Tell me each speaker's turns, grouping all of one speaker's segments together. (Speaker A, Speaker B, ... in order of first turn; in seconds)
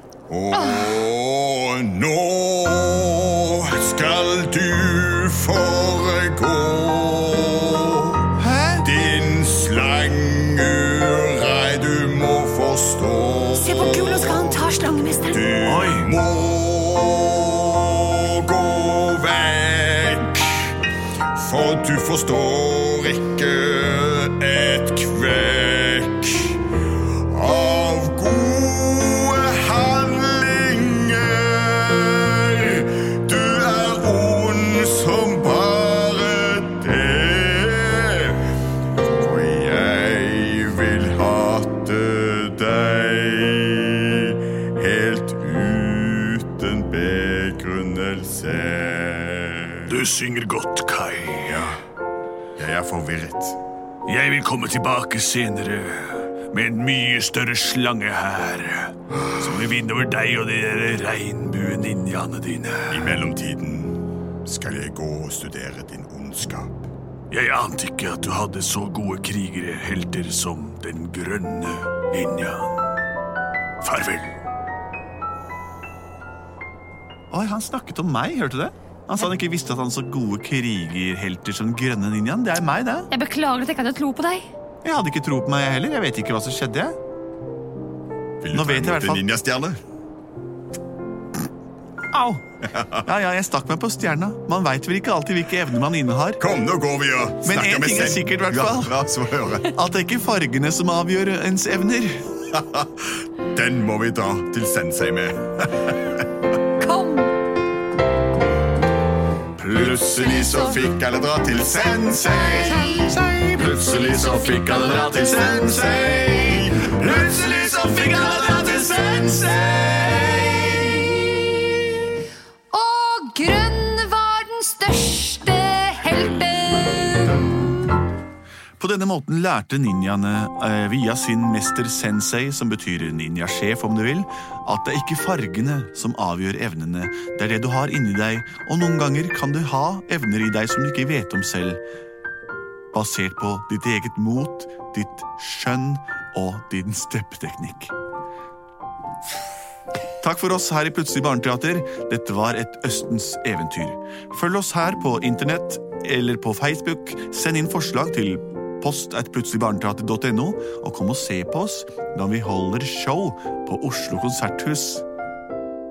Speaker A: 0.3-20.8, 21.3-50.0, 51.5-51.8, 52.6-53.6, 59.1-59.5, 62.9-66.9, 88.4-89.8, 96.4-99.7, 102.5-106.0, 109.7-112.7, 115.1-116.9
Speaker B: 0.5-1.0, 13.6-15.5, 83.1-84.5, 106.8-107.3, 112.7-113.2, 114.2-114.6, 122.7-127.5
Speaker C: 8.4-8.9, 15.7-16.1, 77.3-83.1, 84.8-87.0, 88.5-89.3, 92.1-92.4, 93.0-96.4, 97.4-99.0, 99.7-102.3, 109.6-110.8, 111.7-121.7, 128.8-141.8, 142.9-147.9, 150.2-165.1
Speaker D: 49.9-51.7, 54.1-63.2, 67.3-72.7, 73.8-74.3